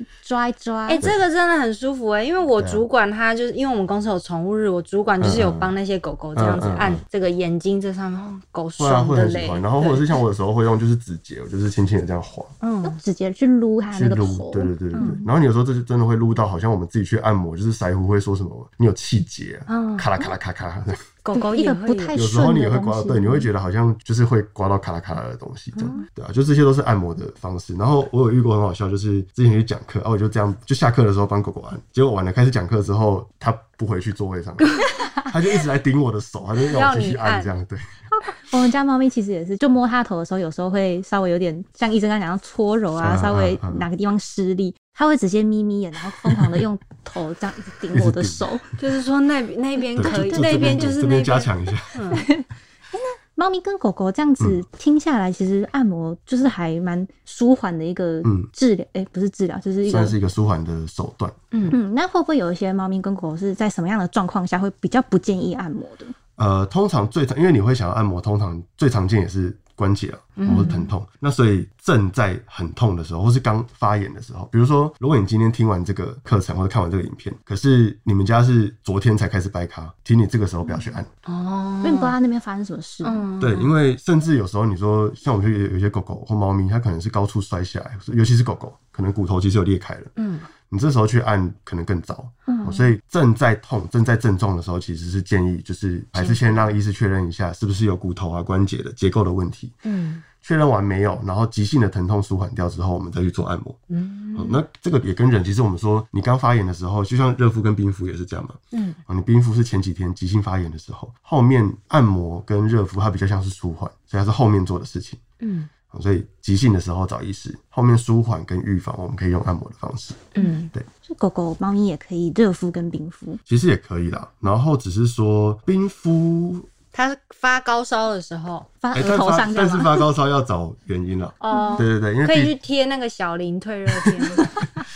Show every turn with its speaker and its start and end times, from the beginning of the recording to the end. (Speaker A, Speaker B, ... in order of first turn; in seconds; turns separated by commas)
Speaker A: 0.2-1.1, Speaker B: 0.8-10.1, Speaker C: 2.5-2.8, Speaker C: 5.2-5.7, Speaker C: 6.3-7.0, Speaker C: 8.8-12.5, Speaker B: 12.6-13.0, Speaker A: 12.8-15.3, Speaker C: 13.9-21.0, Speaker B: 14.9-15.2, Speaker B: 19.7-20.1, Speaker B: 21.2-22.2, Speaker A: 21.3-23.5, Speaker C: 22.1-37.9, Speaker B: 25.7-26.1, Speaker B: 36.7-37.5, Speaker A: 38.1-48.6, Speaker C: 43.0-43.9, Speaker C: 47.9-48.5, Speaker B: 48.8-52.2, Speaker A: 49.9-51.0, Speaker C: 50.0-52.2, Speaker A: 52.1-60.1, Speaker C: 58.2-58.5, Speaker C: 59.8-61.4, Speaker B: 61.5-61.8, Speaker A: 61.7-66.1, Speaker C: 66.4-81.1, Speaker B: 70.4-70.9, Speaker B: 80.7-82.1, Speaker A: 81.8-83.2, Speaker B: 83.0-83.7, Speaker C: 83.4-90.1, Speaker B: 90.2-90.5, Speaker C: 90.7-99.7, Speaker A: 92.5-92.9, Speaker B: 96.1-96.7, Speaker B: 99.8-100.2, Speaker C: 100.4-103.8, Speaker B: 103.9-104.6, Speaker C: 104.3-115.2, Speaker B: 108.7-109.0, Speaker B: 115.4-115.7, Speaker C: 115.9-120.8, Speaker B: 120.3-120.7, Speaker A: 120.4-123.4, Speaker C: 123.5-126.7, Speaker B: 126.9-128.7, Speaker A: 128.8-130.1, Speaker C: 128.9-132.5, Speaker B: 131.4-134.7, Speaker A: 131.5-131.8